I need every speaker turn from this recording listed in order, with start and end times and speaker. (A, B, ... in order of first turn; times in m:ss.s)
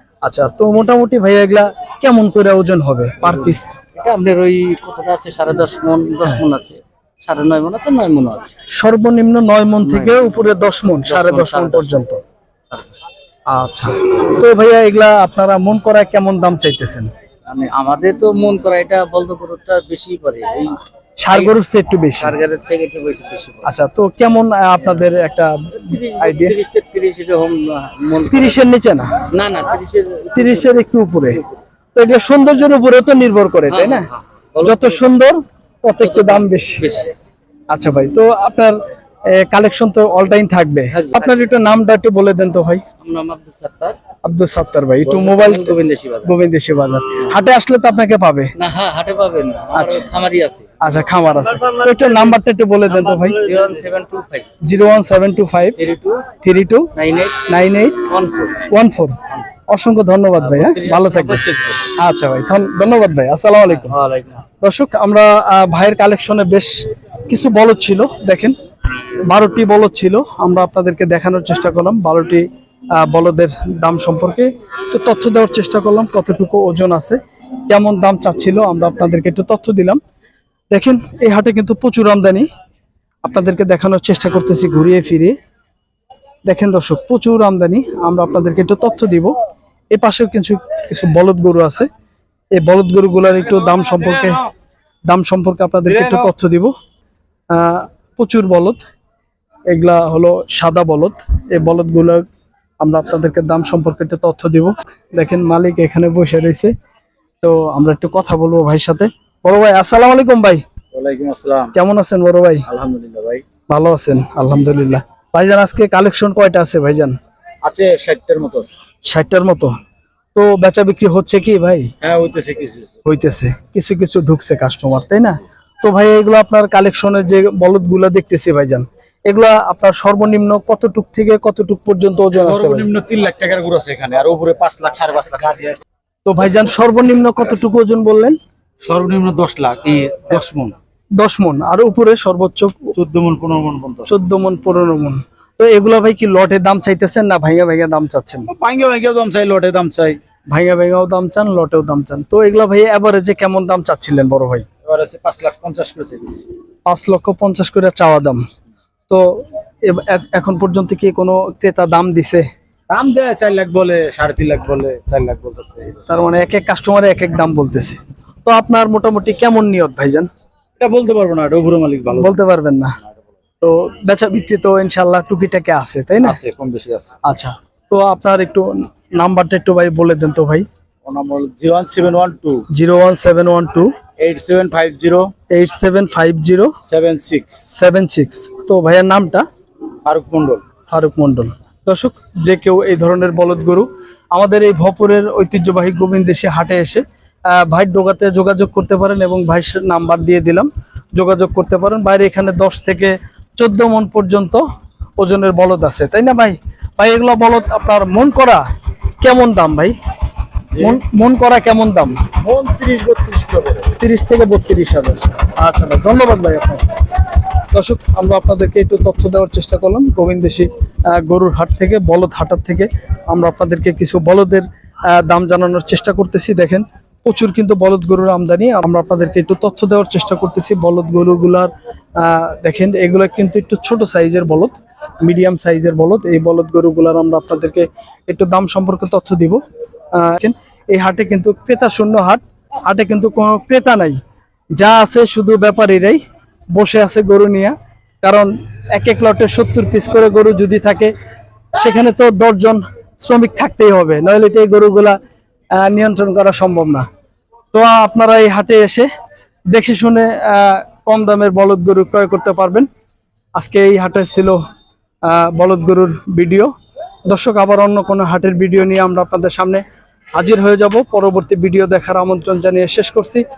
0:00.2-0:03.7 A
0:03.2-0:08.5 B
0:08.7-0:12.2 A
0:09.8-0:10.2 B
0:11.0-0:12.0 B
0:12.7-0:13.0 B
0:13.5-0:17.1 A
0:17.4-0:20.8 B
0:21.2-0:22.3 A
0:22.1-0:23.6 B
0:23.6-0:26.6 A
0:25.7-0:28.6 B
0:28.3-0:29.2 A
0:29.3-0:31.4 B
0:30.3-0:31.4 A
0:31.9-0:34.1 A
0:33.7-0:35.1 B
0:34.6-0:36.8 A
0:36.0-0:37.1 B
0:37.7-0:38.8 A
0:39.3-0:42.8 A
0:40.9-0:41.4 B
0:43.0-0:44.0 B
0:44.2-0:48.5 A
0:45.0-0:46.3 B
0:48.6-0:50.6 B
0:49.7-0:50.0 A
0:50.8-0:53.4 A
0:53.0-0:54.5 B
0:54.6-0:55.8 A
0:55.8-0:56.2 B
0:56.4-0:56.9 A
0:56.9-0:57.5 B
0:57.4-0:58.1 A
0:58.0-0:58.6 B
0:58.7-1:03.9 A
1:00.4-1:01.8 B
1:03.7-1:04.4 B
1:04.6-1:06.7 A
1:07.3-1:08.6 A
1:09.3-1:12.4 A
1:13.0-1:20.0 A
1:20.7-1:22.4 A
1:23.2-1:25.3 A
1:26.4-1:29.3 A
1:29.9-1:31.9 A
1:32.5-1:34.5 A
1:35.1-1:36.7 A
1:37.5-1:38.8 A
1:39.7-1:42.2 A
1:42.8-1:46.7 A
1:47.4-1:50.6 A
1:50.9-1:51.7 C
1:51.7-1:52.6 A
1:52.7-1:53.4 C
1:53.7-1:57.1 A
1:57.6-1:58.7 C
1:59.0-1:59.7 A
2:00.3-2:01.9 A
2:02.0-2:03.0 C
2:03.0-2:12.9 A
2:12.3-2:15.8 C
2:16.2-2:18.4 A
2:18.8-2:20.7 C
2:21.2-2:22.9 A
2:22.9-2:24.1 C
2:24.0-2:28.5 A
2:28.5-2:30.2 C
2:30.5-2:34.6 A
2:34.8-2:36.4 C
2:36.9-2:38.4 A
2:39.1-2:42.4 A
2:42.9-2:46.0 C
2:46.1-2:50.3 A
2:50.8-2:52.4 C
2:52.2-2:53.0 A
2:53.6-2:56.4 A
2:56.2-2:57.2 C
2:57.2-3:00.6 A
3:01.0-3:02.6 C
3:02.7-3:03.9 A
3:04.2-3:05.3 C
3:05.5-3:06.7 A
3:06.8-3:07.7 C
3:07.7-3:09.4 A
3:10.0-3:10.6 C
3:10.9-3:24.6 A
3:25.2-3:28.6 A
3:29.2-3:29.9 A
3:30.7-3:31.0 C
3:30.8-3:32.1 A
3:32.4-3:33.9 C
3:34.0-3:36.8 A
3:37.7-3:59.6 A
4:00.1-4:04.2 A
4:04.8-4:06.2 A
4:06.7-4:11.1 A
4:11.7-4:15.2 A
4:15.7-4:17.0 A
4:17.7-4:19.1 A
4:19.7-4:22.9 A
4:23.6-4:24.6 A
4:25.2-4:26.7 A
4:27.3-4:29.8 A
4:30.3-4:33.4 A